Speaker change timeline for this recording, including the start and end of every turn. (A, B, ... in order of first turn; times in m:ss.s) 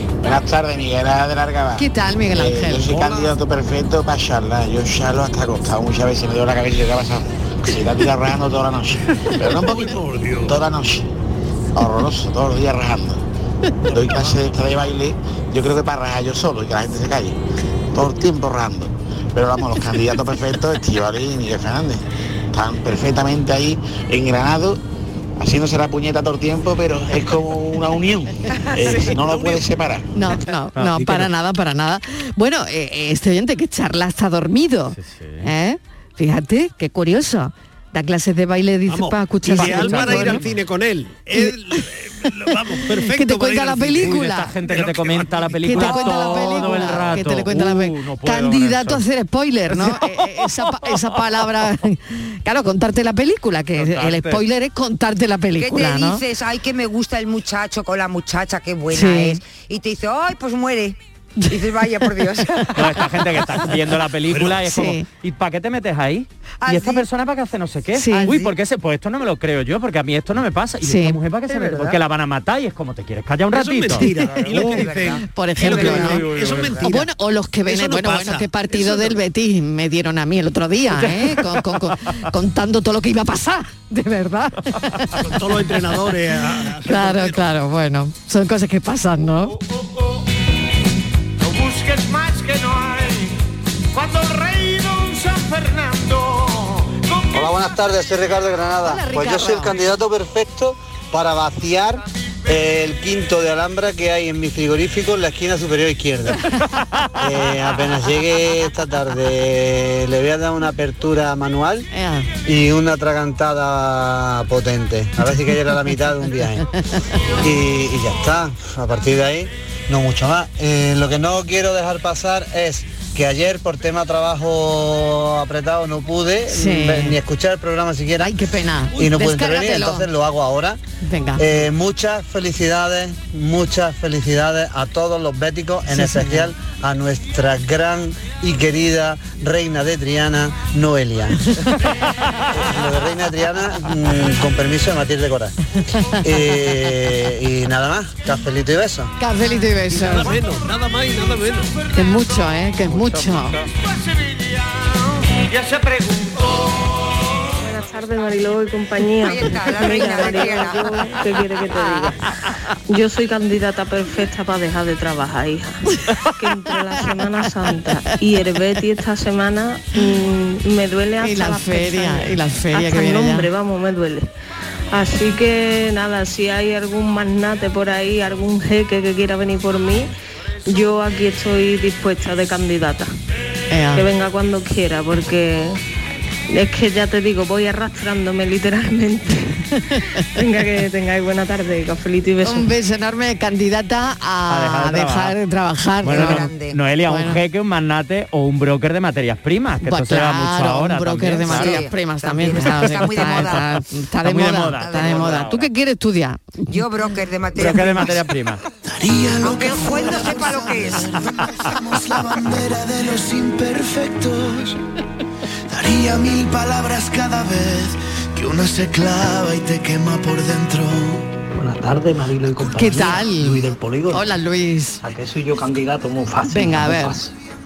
0:00.2-0:11.0 A
0:01.8-0:02.9 B
0:02.9-0:03.3 C
0:10.1-0:10.4 D
0:11.8-0:13.2 A
0:13.9-0:17.4 A
0:17.9-0:22.0 A
0:22.5-0:24.8 A
0:25.4-0:30.1 A
0:29.2-0:29.6 C
0:30.1-0:40.4 B
0:30.8-0:31.2 E
0:34.9-0:35.5 E
0:38.9-0:46.4 C
0:39.5-0:40.5 E
0:43.1-0:44.5 B
0:44.0-0:49.0 E
0:45.6-0:56.2 B
0:49.7-0:50.6 E
0:53.8-0:54.4 E
0:55.6-1:01.0 F
0:58.9-0:59.4 B
1:01.5-1:02.8 F
1:02.4-1:02.7 B
1:02.7-1:14.8 E
1:04.6-1:05.0 B
1:06.6-1:07.0 F
1:08.0-1:08.5 B
1:10.8-1:11.2 B
1:13.5-1:17.1 C
1:14.0-1:14.3 B
1:14.5-1:15.2 F
1:15.3-1:16.3 B
1:15.7-1:16.8 E
1:16.8-1:25.2 B
1:17.6-1:19.2 C
1:20.9-1:21.9 E
1:25.2-1:27.4 C
1:26.9-1:29.6 B
1:31.4-1:33.3 D
1:33.9-1:37.5 D
1:37.3-1:46.4 G
1:38.8-1:39.8 B
1:47.2-1:51.9 G
1:51.9-1:52.3 B
1:52.4-1:56.6 G
1:57.4-2:08.3 G
2:06.5-2:07.2 B
2:08.2-2:10.1 B
2:08.9-2:10.8 G
2:11.0-2:11.4 B
2:11.4-2:21.4 G
2:15.9-2:16.5 B
2:22.5-2:25.5 G
2:25.9-2:26.4 B
2:26.2-2:29.1 G
2:29.2-2:30.4 B
2:29.9-2:31.7 C
2:31.9-2:33.6 B
2:32.9-2:33.7 E
2:37.6-2:42.2 H
2:39.2-2:41.1 F
2:42.9-2:45.8 H
2:46.4-2:54.3 H
2:51.2-2:53.5 B
2:54.9-3:00.1 H
3:00.7-3:03.1 H
3:03.7-3:04.1 B
3:03.9-3:05.8 H
3:06.5-3:09.6 H
3:09.9-3:10.2 B
3:10.3-3:12.7 H
3:12.4-3:16.5 B
3:14.5-3:15.4 E
3:16.0-3:16.8 F
3:16.0-3:21.8 E
3:17.1-3:17.4 B
3:19.8-3:26.8 B
3:21.4-3:23.8 F
3:24.2-3:25.7 E
3:24.7-3:25.5 F
3:26.7-3:28.2 F
3:27.5-3:28.6 E
3:28.7-3:34.8 D
3:29.4-3:31.2 F
3:35.7-3:41.4 D
3:41.5-3:44.3 I
3:42.7-3:45.0 B
3:45.0-3:47.3 I
3:46.5-3:47.2 B